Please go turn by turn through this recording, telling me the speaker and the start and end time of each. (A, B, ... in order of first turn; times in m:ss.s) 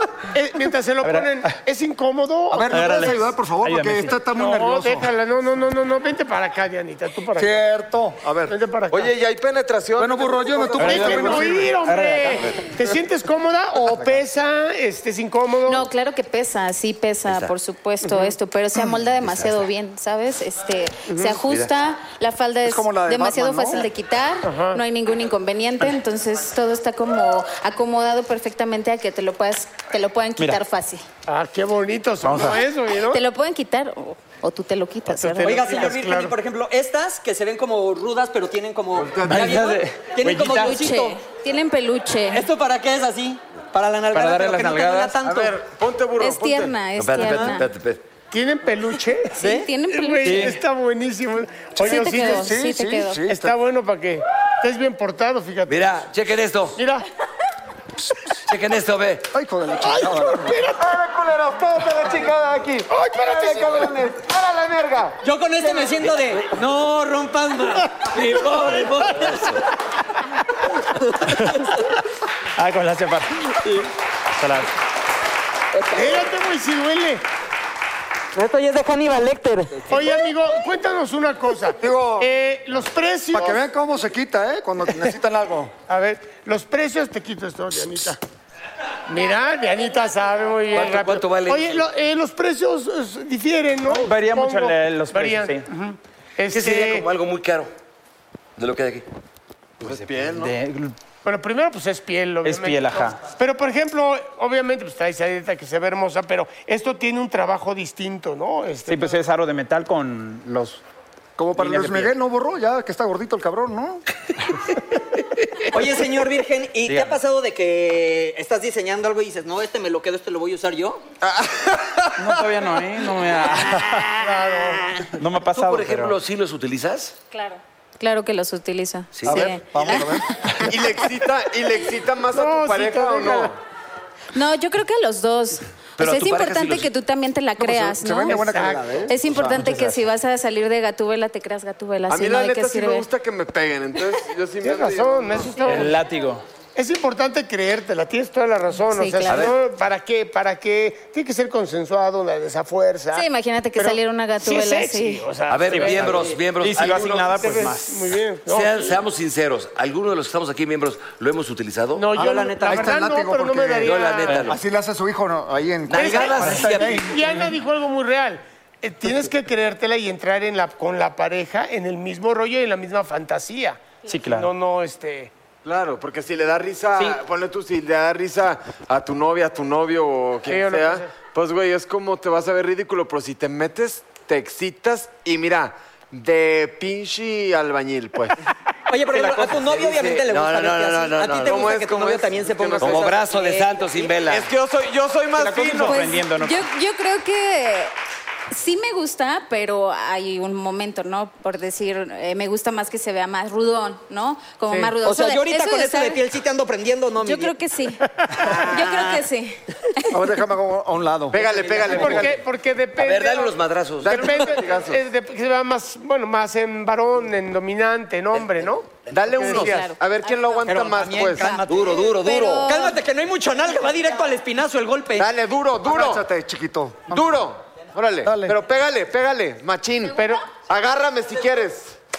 0:00.3-0:03.2 A
0:01.0-0:01.6 B
0:02.5-0:05.1 C
0:02.7-0:04.2 B
0:04.2-0:07.6 A
0:07.3-0:08.5 C
0:08.5-0:09.1 A
0:08.9-0:11.6 D
0:10.0-0:11.9 C
0:10.8-0:15.9 A
0:10.8-0:12.4 B
0:15.6-0:31.0 E
0:17.2-0:17.5 F
0:18.0-0:18.3 A
0:18.9-0:19.7 F
0:21.0-0:21.4 A
0:21.4-0:21.7 F
0:22.6-0:23.9 C
0:24.4-0:24.8 A
0:31.3-0:33.2 A
0:32.2-0:32.6 B
0:33.1-0:35.8 E
0:35.1-0:36.3 A
0:35.4-0:41.2 G
0:39.0-0:39.7 C
0:39.2-0:40.7 B
0:40.2-0:42.4 E
0:42.3-0:45.5 G
0:44.1-0:45.2 B
0:45.2-0:46.8 D
0:46.2-0:47.7 E
0:47.0-0:48.0 F
0:48.3-0:52.5 A
0:49.4-0:50.6 E
0:49.4-0:49.7 G
0:50.2-0:50.6 B
0:51.8-0:53.2 E
0:51.8-0:53.5 C
0:53.2-0:55.9 A
0:55.6-0:56.8 F
0:56.8-0:57.0 A
0:58.5-0:59.3 F
0:59.3-1:05.1 C
0:59.8-1:00.9 A
1:02.9-1:04.4 A
1:05.2-1:09.6 G
1:12.6-1:13.6 B
1:14.3-1:14.7 B
1:15.9-1:17.2 A
1:18.3-1:19.9 G
1:19.9-1:23.6 A
1:21.8-1:22.3 C
1:23.3-1:25.7 C
1:25.9-1:28.2 A
1:29.1-1:37.1 A
1:30.7-1:31.9 F
1:33.9-1:35.7 B
1:36.5-1:37.7 F
1:38.6-1:39.0 F
1:39.8-1:40.5 D
1:40.3-1:40.9 B
1:41.2-1:49.2 A
1:42.4-1:43.2 B
1:48.9-1:50.8 B
1:51.4-1:54.0 C
1:51.6-1:52.1 B
1:55.7-2:01.0 G
1:56.9-1:57.2 B
2:01.2-2:02.4 D
2:02.2-2:04.1 B
2:04.2-2:04.9 A
2:05.1-2:06.2 B
2:05.4-2:07.1 F
2:07.3-2:10.2 E
2:09.1-2:09.5 F
2:09.2-2:10.3 C
2:10.6-2:13.5 D
2:12.3-2:13.5 A
2:14.3-2:18.5 E
2:16.0-2:16.9 F
2:17.6-2:19.7 C
2:18.2-2:19.0 A
2:19.1-2:23.1 E
2:19.6-2:20.0 B
2:22.1-2:25.6 D
2:24.6-2:26.0 A
2:25.6-2:26.4 B
2:26.8-2:38.9 A
2:28.9-2:29.5 E
2:29.2-2:29.5 F
2:33.1-2:35.3 E
2:35.5-2:37.4 F
2:35.7-2:36.1 B
2:36.6-2:38.0 B
2:38.4-2:42.8 F
2:41.9-2:44.4 A
2:42.2-2:42.5 G
2:42.6-2:47.4 C
2:43.8-2:44.6 F
2:45.9-2:47.1 F
2:45.9-2:55.3 A
2:54.1-2:54.5 B
2:55.6-3:08.4 D
3:00.4-3:01.1 A
3:08.9-3:14.1 G
3:09.1-3:11.6 F
3:11.4-3:13.1 D
3:12.8-3:14.5 F
3:14.2-3:16.1 D
3:15.4-3:16.6 B
3:15.8-3:17.9 E
3:18.5-3:26.2 E
3:25.0-3:27.5 G
3:27.2-3:30.1 E
3:30.1-3:32.2 C
3:31.3-3:32.3 D
3:31.8-3:39.9 A
3:33.0-3:34.5 F
3:34.0-3:35.0 D
3:38.3-3:39.7 F
3:39.1-3:41.6 D
3:39.5-3:40.6 E
3:40.6-3:45.3 G
3:41.6-3:42.7 F
3:41.8-3:43.0 E
3:45.2-3:46.2 D
3:45.8-3:47.2 C
3:47.1-3:52.0 D
3:48.2-3:48.6 C
3:50.1-3:50.5 A